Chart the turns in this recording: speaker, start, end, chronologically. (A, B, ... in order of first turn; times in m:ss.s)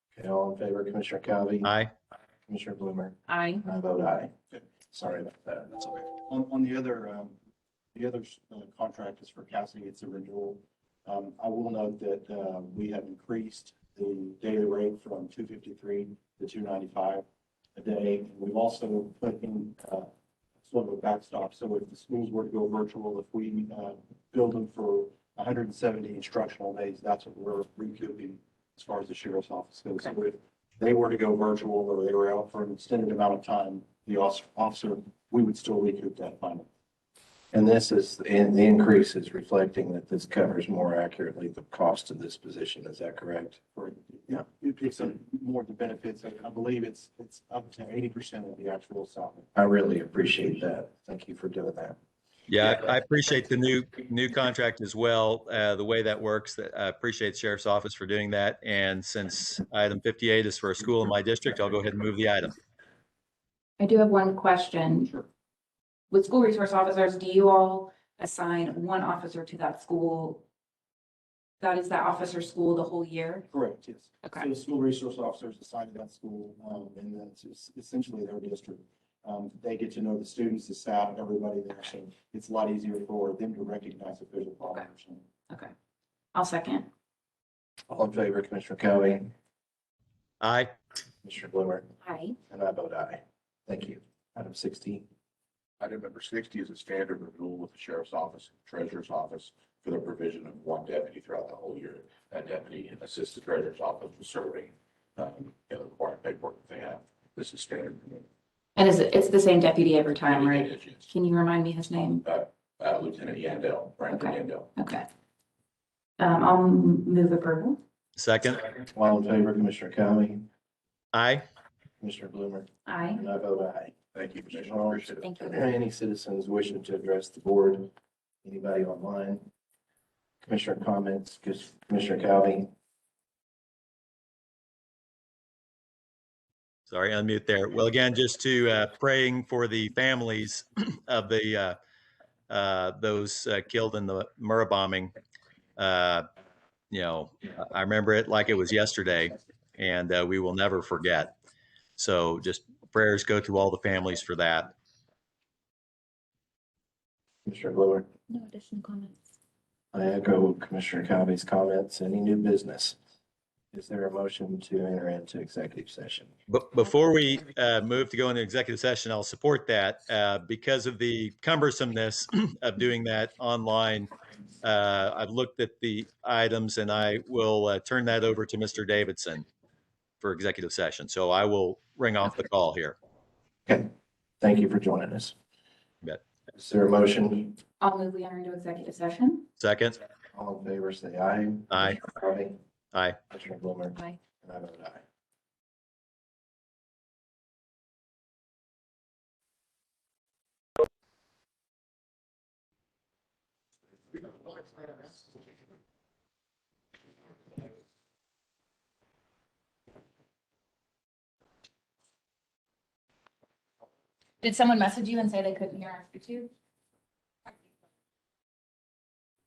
0:00.1-0:01.7 A
0:01.6-0:01.9 B
0:02.5-0:04.3 A
0:03.3-0:03.6 C
0:04.9-0:06.1 A
0:06.3-0:07.4 D
0:07.9-0:17.2 D
0:17.8-0:20.1 D
0:20.6-0:36.7 D
0:37.5-0:43.6 A
0:43.7-0:49.5 D
0:49.5-0:52.0 A
0:52.5-1:02.5 B
1:03.8-1:05.1 C
1:06.1-1:10.4 C
1:11.6-1:13.4 C
1:13.5-1:25.2 D
1:26.3-1:26.9 C
1:27.9-1:29.3 A
1:30.4-1:30.7 B
1:31.2-1:31.8 A
1:32.0-1:32.4 C
1:32.5-1:35.0 A
1:35.8-1:48.2 E
1:48.8-1:52.2 C
1:50.2-1:51.1 E
1:52.2-1:54.7 E
1:54.1-1:55.0 C
1:56.2-1:57.8 C
1:58.2-1:58.7 B
1:58.9-2:00.5 A
2:01.1-2:01.4 B
2:02.0-2:07.9 A
2:02.8-2:03.2 C
2:04.2-2:05.2 E
2:05.2-2:05.6 C
2:08.4-2:09.5 A
2:10.4-2:12.7 A
2:16.9-2:21.8 B
2:22.5-2:25.1 B
2:25.8-2:26.2 B
2:26.9-2:31.3 B
2:32.0-2:34.7 B
2:37.4-2:38.1 A
2:38.3-2:39.1 C
2:39.9-2:43.0 A
2:43.7-2:46.3 A
2:46.5-2:54.1 B
2:54.6-2:59.4 B
3:00.2-3:03.0 B
3:04.4-3:05.3 A
3:06.5-3:07.6 A
3:07.8-3:09.5 C
3:09.6-3:10.0 B
3:10.3-3:12.6 A
3:11.7-3:12.0 B
3:12.9-3:13.2 B
3:13.3-3:15.0 A
3:34.4-3:36.5 C